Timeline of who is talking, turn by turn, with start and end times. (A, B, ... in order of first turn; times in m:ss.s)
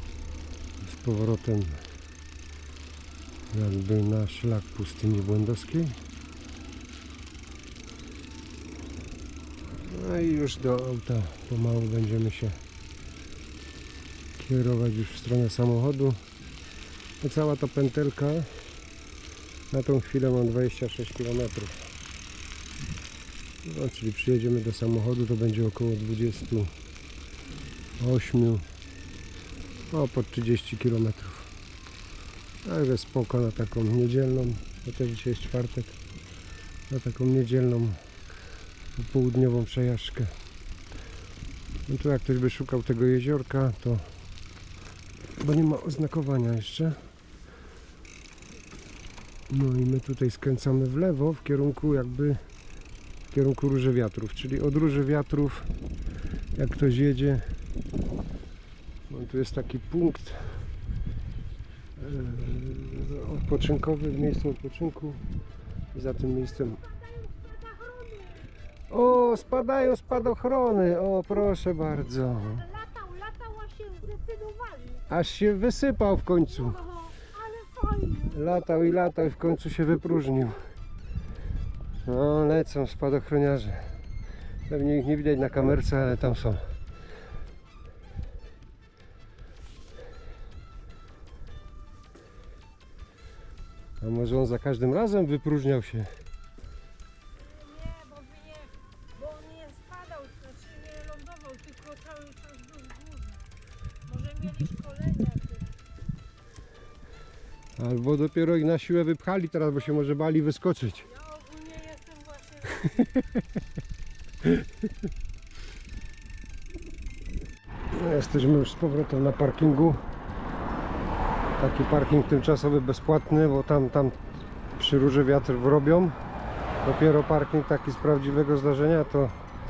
0:00.8-0:01.8 A
0:03.5-0:06.0 A
0:09.9-0:12.6 A
0:14.4-0:16.2 A
0:17.2-0:18.5 A
0:19.7-0:21.8 A
0:23.6-0:26.7 A
0:28.0-0:28.6 A
0:29.9-0:31.5 A
0:32.6-0:36.0 A
0:36.9-0:38.0 A
0:39.0-0:40.3 A
0:41.9-0:44.1 A
0:45.4-0:47.0 A
0:49.5-0:52.4 A
0:53.3-0:55.7 A
0:56.6-0:57.4 A
0:59.1-1:00.4 A
1:02.0-1:05.2 A
1:05.9-1:06.8 A
1:07.1-1:08.5 B
1:08.9-1:12.8 A
1:12.8-1:15.1 B
1:15.1-1:16.9 A
1:16.9-1:18.4 B
1:18.3-1:20.6 A
1:22.0-1:23.9 A
1:24.7-1:26.6 A
1:34.0-1:36.1 A
1:37.4-1:43.4 B
1:44.1-1:45.7 B
1:47.8-1:51.2 A
1:51.1-1:53.0 B
1:52.8-1:53.2 A
1:57.9-2:00.0 A
2:01.6-2:04.2 A
2:04.7-2:06.2 A
2:06.8-2:09.3 A